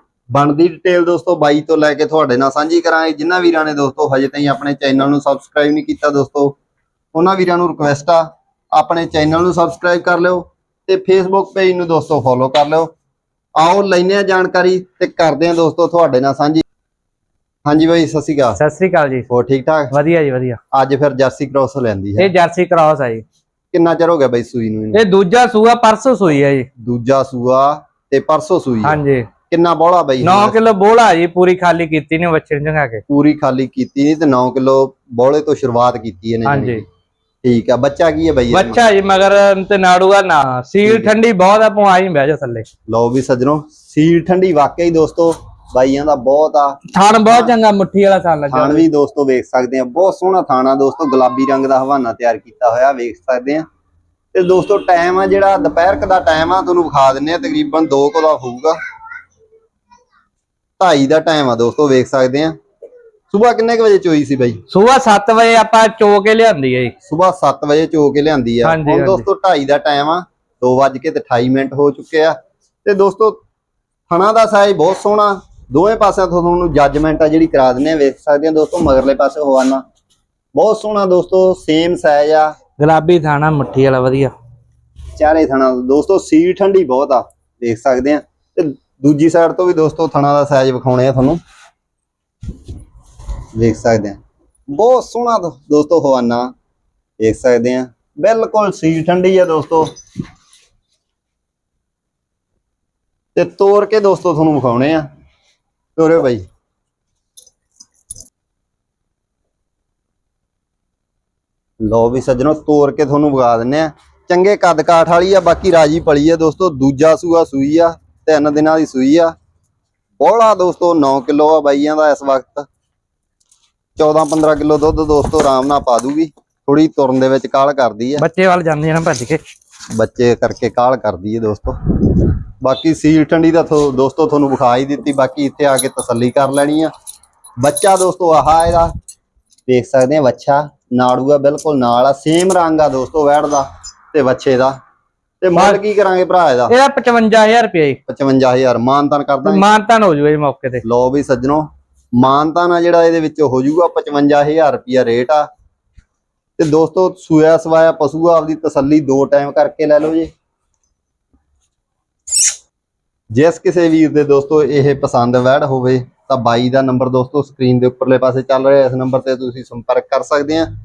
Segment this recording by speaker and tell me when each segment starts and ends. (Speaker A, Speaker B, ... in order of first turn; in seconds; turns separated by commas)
Speaker A: 0.3-6.5, Speaker A: 7.1-12.9, Speaker A: 13.6-16.6, Speaker A: 17.6-18.6, Speaker B: 18.6-19.2, Speaker A: 19.3-19.9, Speaker B: 19.9-20.6, Speaker A: 20.7-22.3, Speaker B: 22.2-23.2, Speaker A: 23.7-25.0, Speaker B: 24.9-26.7, Speaker A: 26.8-30.6, Speaker B: 28.8-29.3, Speaker B: 30.2-33.0, Speaker A: 33.1-36.8, Speaker B: 36.4-36.8, Speaker A: 37.4-38.8, Speaker B: 38.5-42.6, Speaker A: 40.8-41.1, Speaker A: 42.9-47.5, Speaker B: 46.9-48.8, Speaker A: 48.5-53.6, Speaker A: 54.3-58.8, Speaker A: 60.8-62.5, Speaker A: 63.3-64.6, Speaker B: 64.7-66.9, Speaker A: 67.0-73.4, Speaker B: 68.6-69.2, Speaker A: 74.1-79.8, Speaker A: 80.5-82.5, Speaker B: 82.8-84.3, Speaker A: 85.1-91.4, Speaker A: 93.5-94.2, Speaker A: 94.7-96.5, Speaker A: 97.2-99.9, Speaker A: 103.3-105.1, Speaker A: 106.0-106.4, Speaker A: 111.8-119.3, Speaker A: 120.2-122.7, Speaker A: 124.0-128.2, Speaker B: 128.2-129.4, Speaker A: 129.9-136.9, Speaker A: 137.6-138.9, Speaker A: 139.7-144.8, Speaker A: 145.4-146.7, Speaker B: 145.5-145.8, Speaker B: 146.7-148.0, Speaker A: 148.1-149.6, Speaker B: 149.4-150.8, Speaker A: 150.8-155.5, Speaker A: 156.6-160.3, Speaker A: 163.3-170.7